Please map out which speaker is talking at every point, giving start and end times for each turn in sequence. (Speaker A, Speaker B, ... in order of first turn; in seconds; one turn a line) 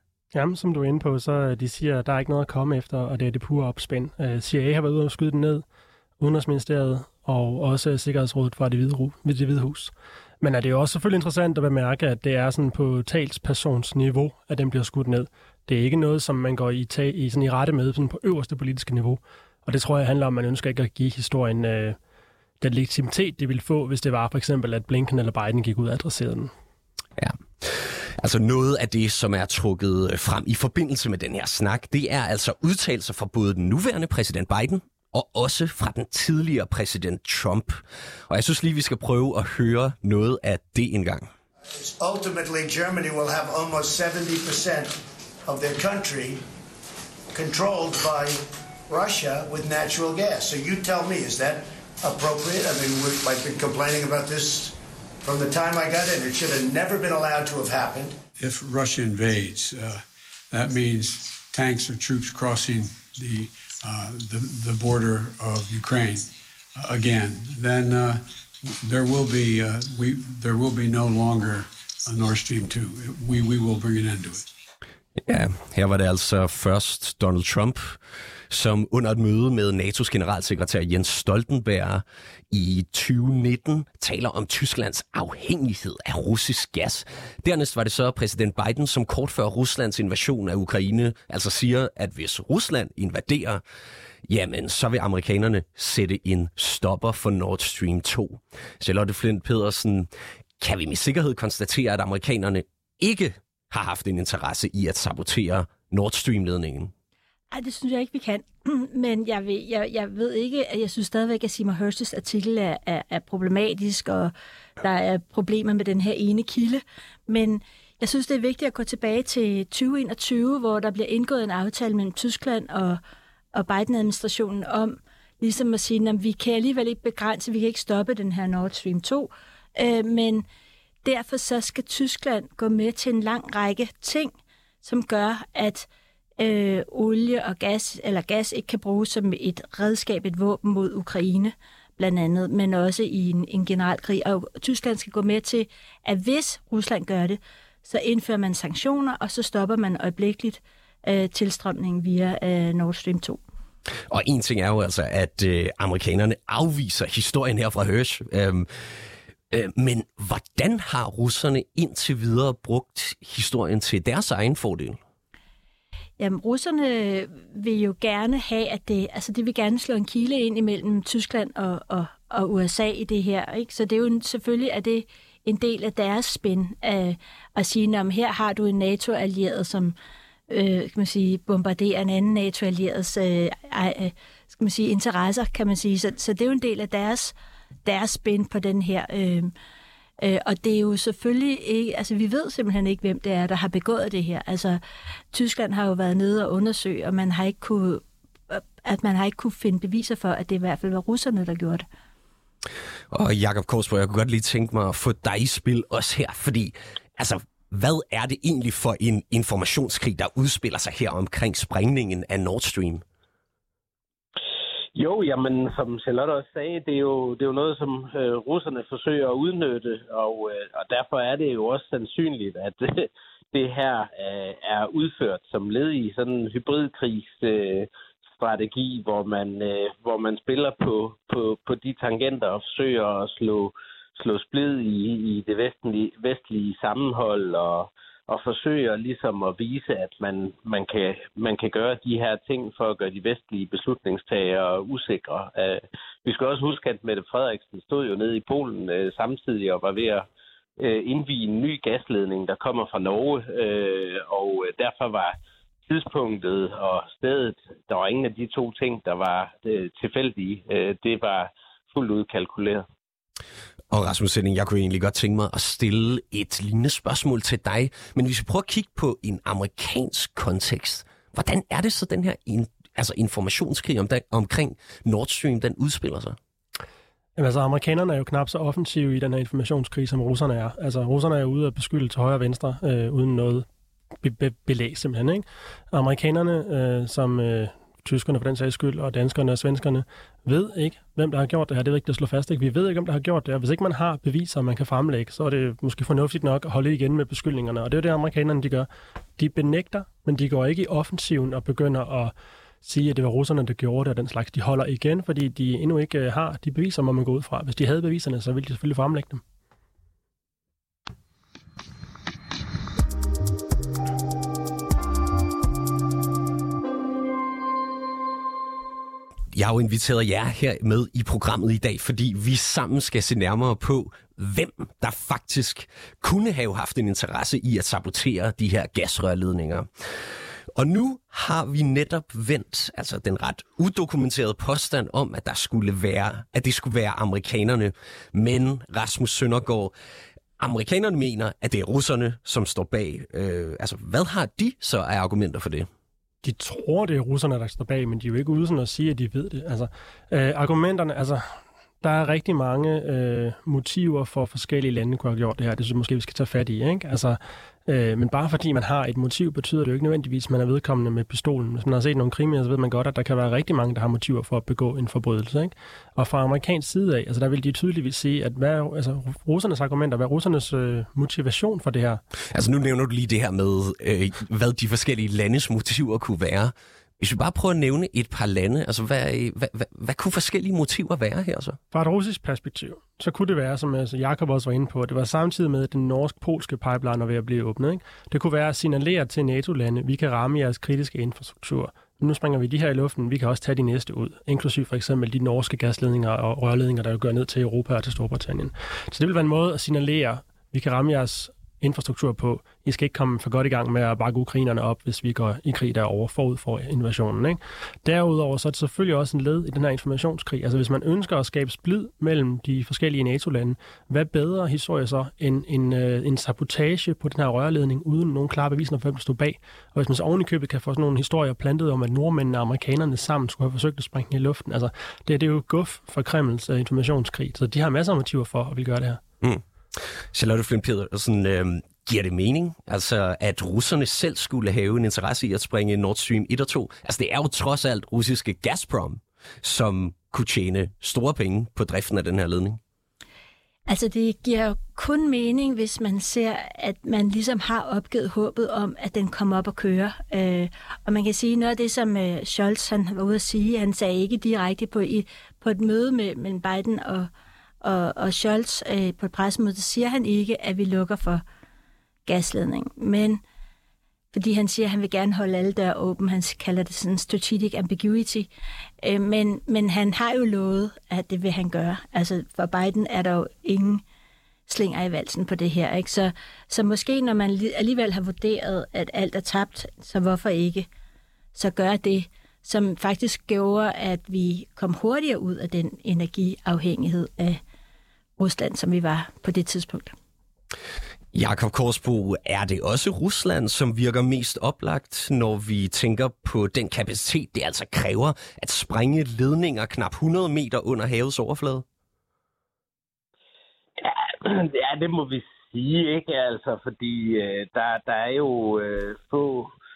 Speaker A: 0.3-5.7
Speaker A: 6.2-22.0
Speaker A: 22.6-26.5
Speaker B: 27.2-41.3
Speaker C: 41.7-46.4
Speaker C: 47.3-58.2
Speaker D: 58.4-74.5
Speaker B: 75.2-93.6
Speaker B: 94.3-106.9
Speaker E: 107.5-123.0
Speaker E: 123.5-130.4
Speaker E: 131.0-135.9
Speaker E: 136.4-153.4
Speaker B: 154.1-158.7
Speaker B: 159.5-165.0
Speaker E: 166.2-180.0
Speaker E: 180.5-187.3
Speaker E: 187.9-189.5
Speaker E: 190.2-194.8
Speaker E: 195.3-201.8
Speaker B: 203.1-213.1
Speaker F: 214.9-250.3
Speaker F: 250.8-255.3
Speaker F: 255.9-262.9
Speaker B: 263.9-276.4
Speaker A: 277.4-283.7
Speaker A: 284.2-309.4
Speaker B: 319.5-329.9
Speaker B: 330.7-339.9
Speaker B: 340.6-345.9
Speaker A: 346.4-372.2
Speaker B: 372.5-381.8
Speaker A: 381.9-429.2
Speaker B: 429.4-442.8
Speaker E: 443.9-457.3
Speaker E: 457.8-461.4
Speaker E: 462.3-463.4
Speaker E: 464.3-468.5
Speaker E: 469.0-474.0
Speaker E: 474.7-480.9
Speaker E: 481.6-487.6
Speaker E: 488.4-490.1
Speaker B: 491.3-501.9
Speaker F: 504.0-509.7